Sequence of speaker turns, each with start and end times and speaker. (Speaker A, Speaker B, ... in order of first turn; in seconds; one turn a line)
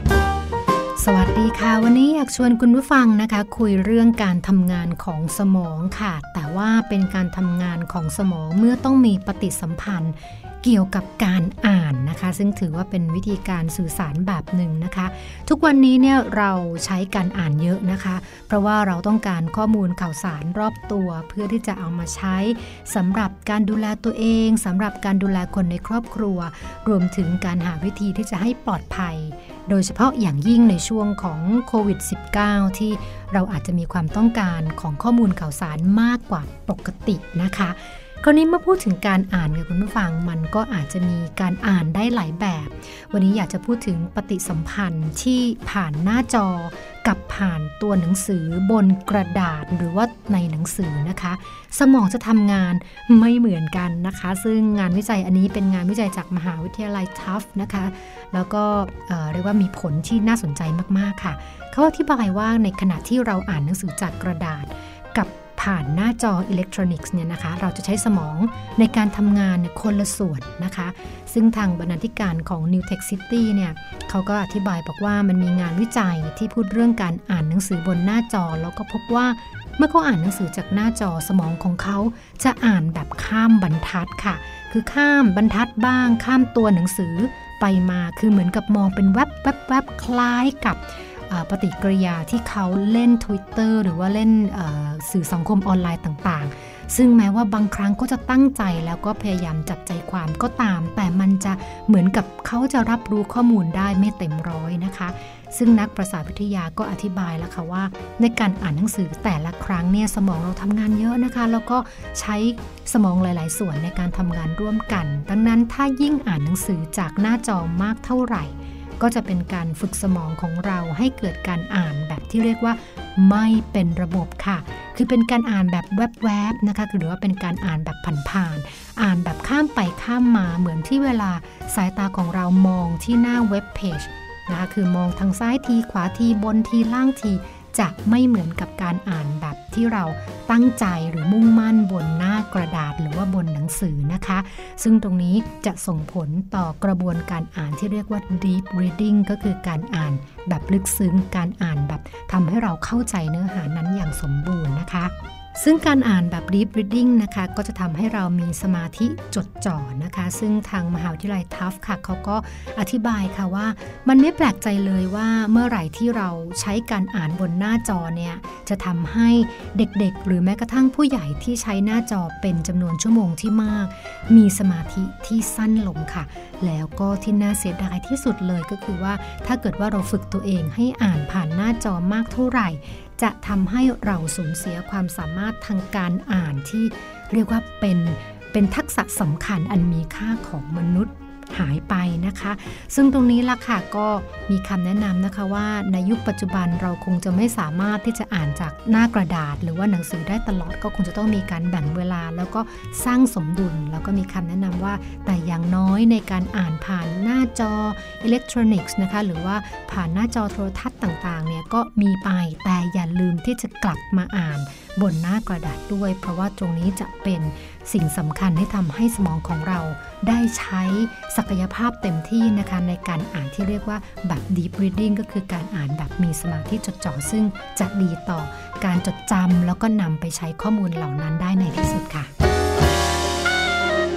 Speaker A: 1.0-232.3